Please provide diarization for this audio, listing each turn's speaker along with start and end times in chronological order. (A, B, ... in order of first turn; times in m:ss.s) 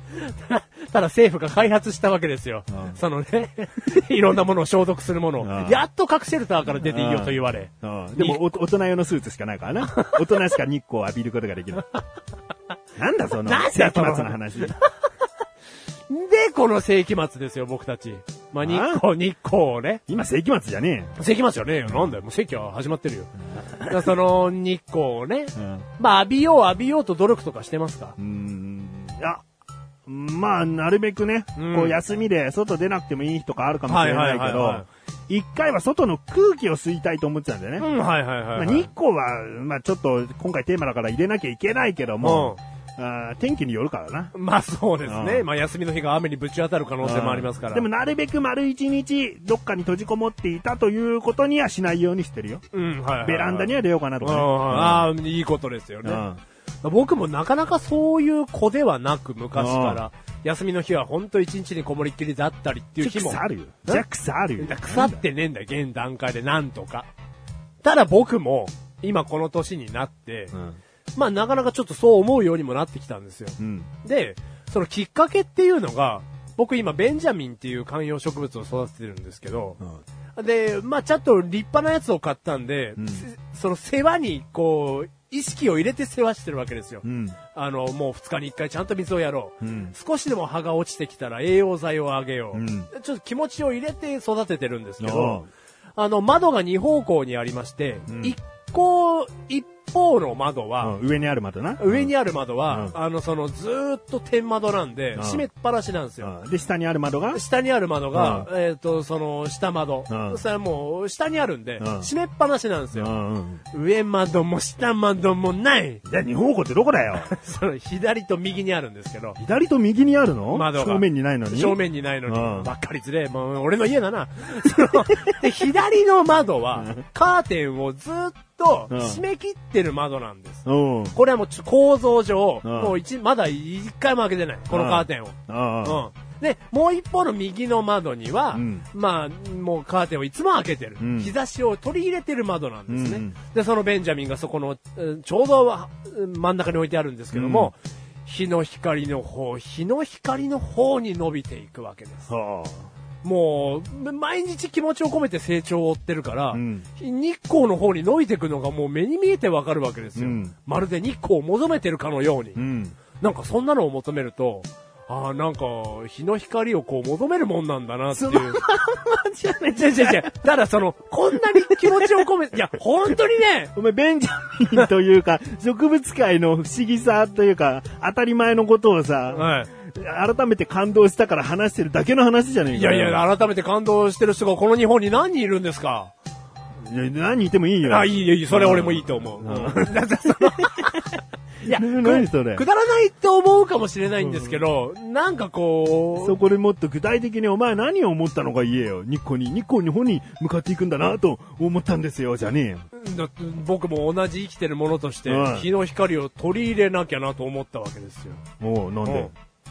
0:00.1-0:08.4 A
0:02.7-0:03.0 B
0:05.4-0:05.8 B
0:06.8-0:11.9 B
0:13.0-0:14.8 B
0:13.4-0:14.9 A
0:16.1-0:20.0 A
0:18.6-0:19.0 B
0:20.1-0:21.2 B
0:21.2-0:23.3 A
0:23.6-0:24.1 B
0:23.9-0:28.2 A
0:25.6-0:25.9 B
0:28.2-0:29.4 B
0:30.1-0:37.9 B
0:31.6-0:32.0 A
0:33.9-0:34.9 A
0:37.8-0:38.9 A
0:38.6-0:44.3 B
0:42.2-0:42.6 A
0:44.3-0:47.9 A
0:45.0-0:45.5 B
0:47.0-0:52.6 B
0:52.7-0:56.2 A
0:53.2-0:55.1 B
0:56.0-0:56.4 B
0:56.8-1:04.0 A
0:59.6-1:00.0 B
1:03.0-1:05.2 B
1:04.6-1:07.1 A
1:07.8-1:10.6 A
1:10.5-1:10.8 B
1:11.2-1:19.8 A
1:13.6-1:13.9 B
1:20.4-1:41.0 A
1:23.0-1:23.3 B
1:27.0-1:27.4 B
1:29.6-1:29.9 B
1:32.5-1:32.9 B
1:35.0-1:35.5 B
1:38.1-1:38.4 B
1:40.8-1:42.1 B
1:41.8-1:46.3 A
1:42.7-1:43.0 B
1:45.2-1:45.5 B
1:46.2-1:47.4 B
1:47.3-1:53.1 A
1:48.1-1:48.5 B
1:50.1-1:50.4 B
1:51.8-1:52.1 B
1:53.0-1:53.6 B
1:53.7-1:56.0 A
1:56.1-1:57.3 B
1:57.2-1:59.4 A
1:59.4-2:02.7 B
2:00.5-2:27.8 A
2:06.8-2:07.0 B
2:08.9-2:09.2 B
2:10.7-2:11.2 B
2:12.6-2:13.0 B
2:14.7-2:16.0 B
2:18.5-2:18.8 B
2:21.0-2:21.3 B
2:22.9-2:23.4 B
2:27.3-2:27.7 B
2:28.3-2:32.3 A
2:32.3-2:32.9 B
2:33.2-2:42.6 A
2:36.5-2:36.9 B
2:40.2-2:40.5 B
2:42.6-2:43.0 B
2:43.2-2:48.6 A
2:48.1-2:50.5 B
2:49.7-2:53.7 A
2:51.4-2:52.2 B
2:53.8-3:03.2 B
2:59.3-2:59.7 A
3:02.7-3:06.1 A
3:06.8-3:10.7 B
3:07.9-3:16.4 A
3:11.6-3:12.6 B
3:14.2-3:14.6 B
3:16.1-3:22.9 B
3:22.9-3:28.4 A
3:25.3-3:25.7 B
3:28.6-3:29.3 B
3:29.0-3:29.3 A